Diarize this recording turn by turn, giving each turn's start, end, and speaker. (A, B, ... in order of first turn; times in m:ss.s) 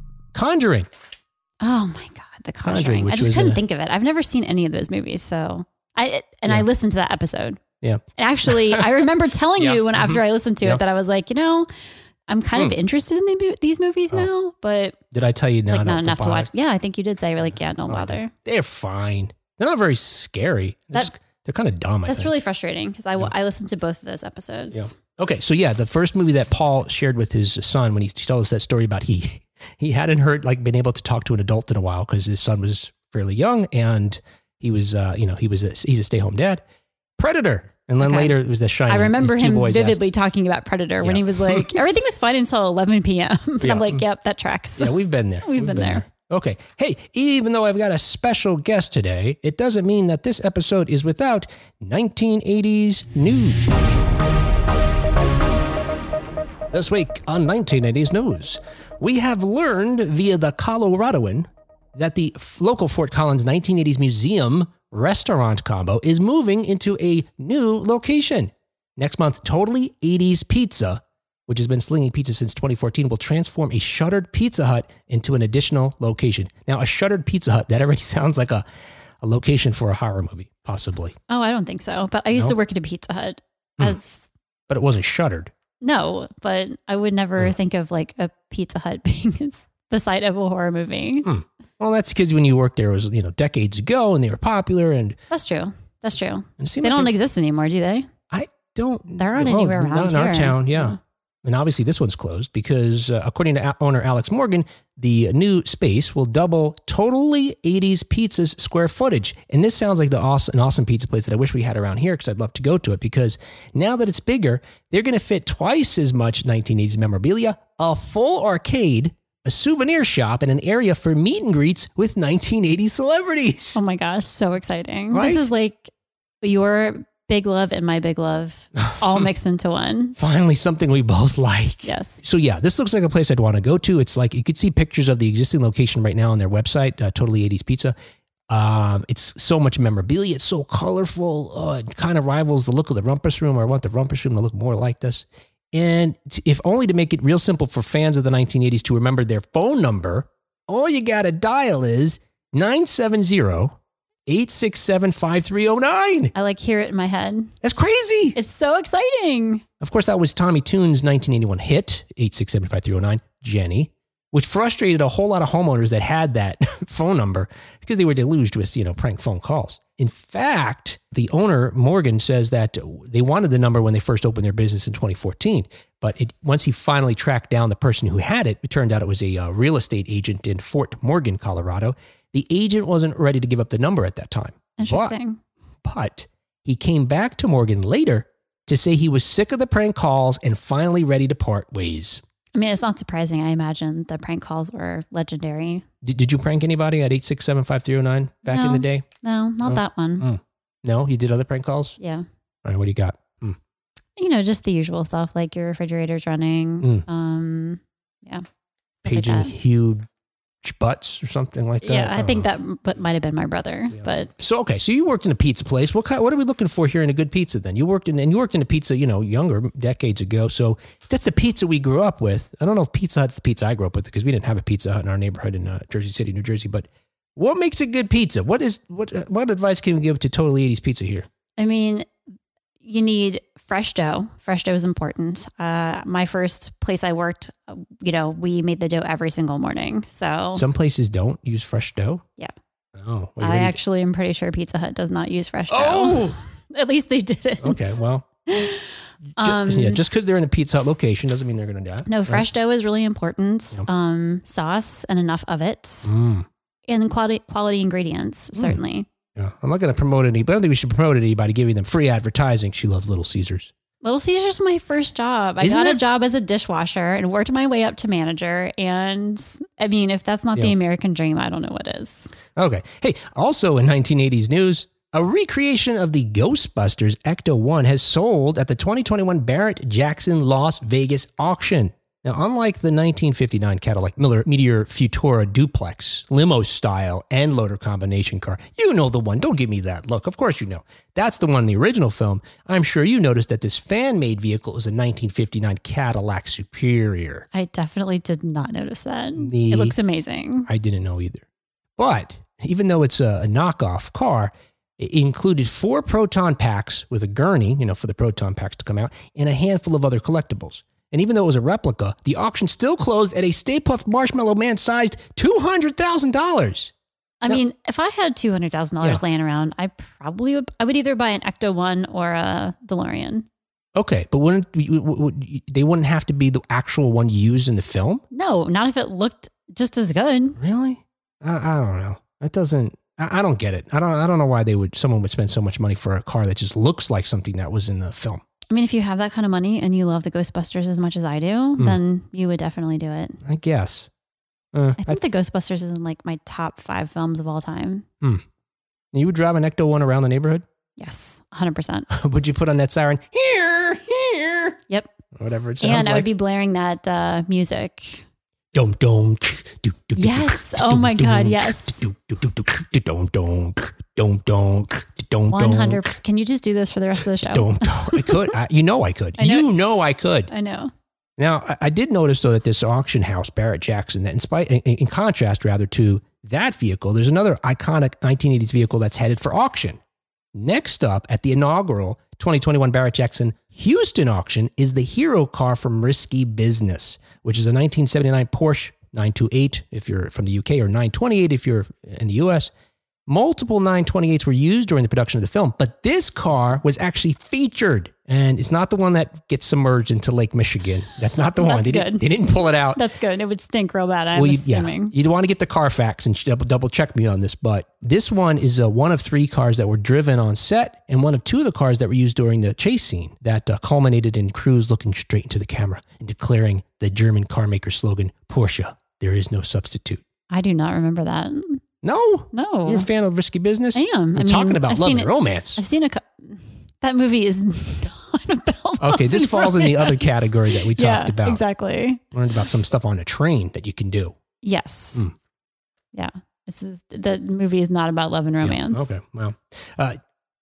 0:00.3-0:00.9 A
0:01.6-0:07.6 B
0:02.6-0:03.6 A
0:07.8-0:08.8 A
0:08.1-0:11.7 B
0:09.6-0:10.8 A
0:12.3-0:15.0 B
0:15.1-0:16.5 A
0:15.7-0:18.3 B
0:17.9-0:22.3 A
0:22.1-0:24.9 B
0:24.7-0:36.6 A
0:37.2-0:40.0 A
0:38.0-0:38.4 B
0:38.9-0:46.0 B
0:41.0-0:41.7 A
0:43.6-0:44.0 A
0:44.8-0:54.0 A
0:56.7-1:18.6 A
1:19.2-1:21.2 A
1:21.3-1:24.3 B
1:24.7-1:25.5 A
1:25.8-1:31.3 B
1:31.2-1:35.2 A
1:35.3-1:38.1 B
1:36.6-1:37.1 A
1:38.3-2:03.8 A
1:39.2-1:41.0 B
2:03.7-2:10.2 B
2:05.1-2:05.4 A
2:08.8-2:09.2 A
2:10.2-2:17.9 A
2:11.8-2:12.2 B
2:18.5-2:36.3 A
2:36.3-2:37.5 B
2:37.6-2:38.4 A
2:38.3-2:39.6 B
2:39.8-3:05.1 A
3:04.8-3:05.4 B
3:05.8-3:12.2 A
3:12.5-3:15.8 B
3:16.0-3:19.0 A
3:18.5-3:20.3 B
3:19.6-3:22.0 A
3:22.0-3:22.2 B
3:22.6-3:23.6 A
3:24.2-3:28.4 B
3:29.0-3:29.5 B
3:29.0-3:30.0 A
3:30.6-3:32.5 A
3:31.8-3:34.3 B
3:33.9-3:51.3 A
3:51.6-3:52.1 B
3:52.8-4:00.6 B
4:00.5-4:02.2 A
4:03.0-4:03.8 A
4:03.4-4:10.0 B
4:05.7-4:06.4 A
4:07.6-4:08.2 A
4:09.4-4:12.4 A
4:12.0-4:16.2 B
4:16.0-4:16.4 A
4:16.9-4:19.0 B
4:19.4-4:23.7 A
4:24.0-4:32.3 B
4:25.6-4:26.0 A
4:32.5-4:57.4 A
4:57.5-5:00.7 B
4:59.4-5:00.0 A
5:00.6-5:01.4 A
5:02.0-5:16.9 A
5:17.4-5:23.4 B
5:23.9-5:28.2 A
5:28.3-5:30.6 B
5:30.6-5:38.4 A
5:38.7-5:43.4 B
5:43.4-5:44.1 A
5:44.7-5:45.2 A
5:45.0-5:48.0 B
5:49.1-5:50.6 A
5:51.0-5:52.1 B
5:52.1-5:54.8 A
5:55.3-5:56.3 A
5:55.8-5:58.2 B
5:58.7-6:06.1 A
6:00.2-6:02.0 B
6:05.5-6:08.5 B
6:07.3-6:10.5 A
6:09.4-6:09.7 B
6:10.5-6:10.9 B
6:11.4-6:20.0 A
6:20.5-6:32.7 A
6:33.3-6:43.0 A
6:41.5-6:42.2 B
6:42.9-6:45.1 B
6:44.3-7:00.2 A
7:00.5-7:01.8 B
7:02.0-7:05.8 A
7:02.5-7:03.1 B
7:03.9-7:12.2 B
7:09.0-7:11.6 A
7:12.3-7:14.4 A
7:14.6-7:15.3 B
7:16.1-7:19.2 B
7:18.6-7:20.2 A